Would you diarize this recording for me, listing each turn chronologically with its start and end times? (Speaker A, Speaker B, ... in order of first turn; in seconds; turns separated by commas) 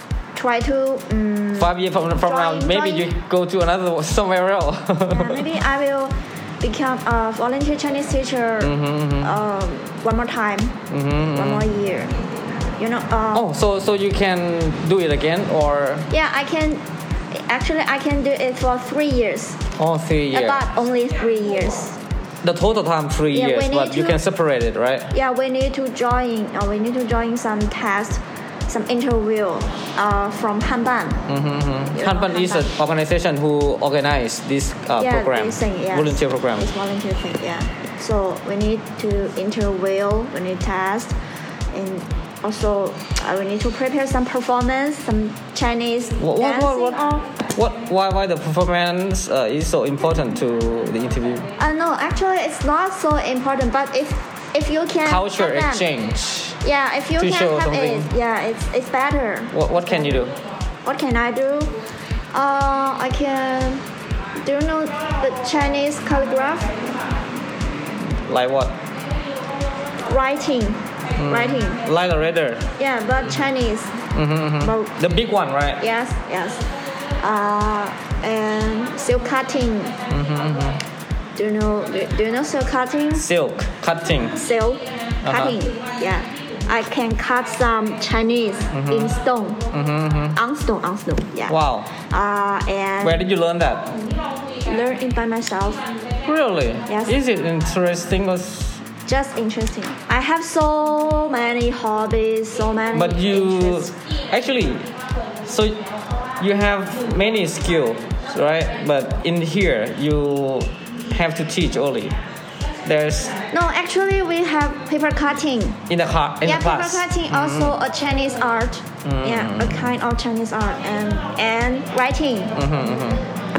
Speaker A: 0.3-3.1, Speaker B: 1.6-5.5, Speaker A: 5.1-12.2, Speaker B: 8.6-9.4, Speaker B: 10.9-11.7, Speaker A: 12.8-13.5, Speaker B: 13.3-16.1, Speaker A: 16.1-16.8, Speaker A: 17.3-19.6, Speaker B: 19.8-20.7, Speaker A: 20.3-22.0, Speaker B: 22.4-25.1, Speaker A: 23.3-24.2, Speaker A: 25.1-31.2, Speaker B: 31.3-36.7, Speaker A: 31.9-32.7, Speaker A: 35.0-41.1, Speaker A: 41.7-47.2, Speaker B: 46.2-51.5, Speaker A: 51.6-55.9, Speaker B: 55.0-56.6, Speaker A: 56.6-60.3, Speaker B: 57.2-58.1, Speaker B: 59.5-60.3, Speaker A: 60.9-61.7, Speaker A: 62.3-63.8, Speaker A: 64.4-66.8, Speaker B: 68.3-68.8, Speaker A: 70.1-71.8, Speaker B: 71.2-72.7, Speaker A: 72.8-74.0, Speaker B: 74.1-75.8, Speaker A: 74.6-74.9, Speaker A: 75.8-76.7, Speaker A: 77.2-80.0, Speaker B: 80.1-80.8, Speaker A: 81.4-83.3, Speaker B: 83.2-84.4, Speaker A: 84.3-89.6, Speaker B: 85.2-85.6, Speaker B: 88.7-89.2, Speaker B: 89.7-90.4, Speaker A: 90.3-93.2, Speaker B: 91.5-91.9, Speaker B: 93.0-93.9, Speaker A: 94.7-95.8, Speaker B: 96.2-98.8, Speaker A: 96.9-97.2, Speaker A: 99.1-103.9, Speaker B: 102.9-104.9, Speaker B: 105.5-105.8, Speaker B: 106.4-112.2, Speaker B: 112.8-113.4, Speaker A: 113.5-115.8, Speaker B: 115.9-117.8, Speaker A: 116.4-122.6, Speaker B: 119.0-119.8, Speaker B: 122.5-123.2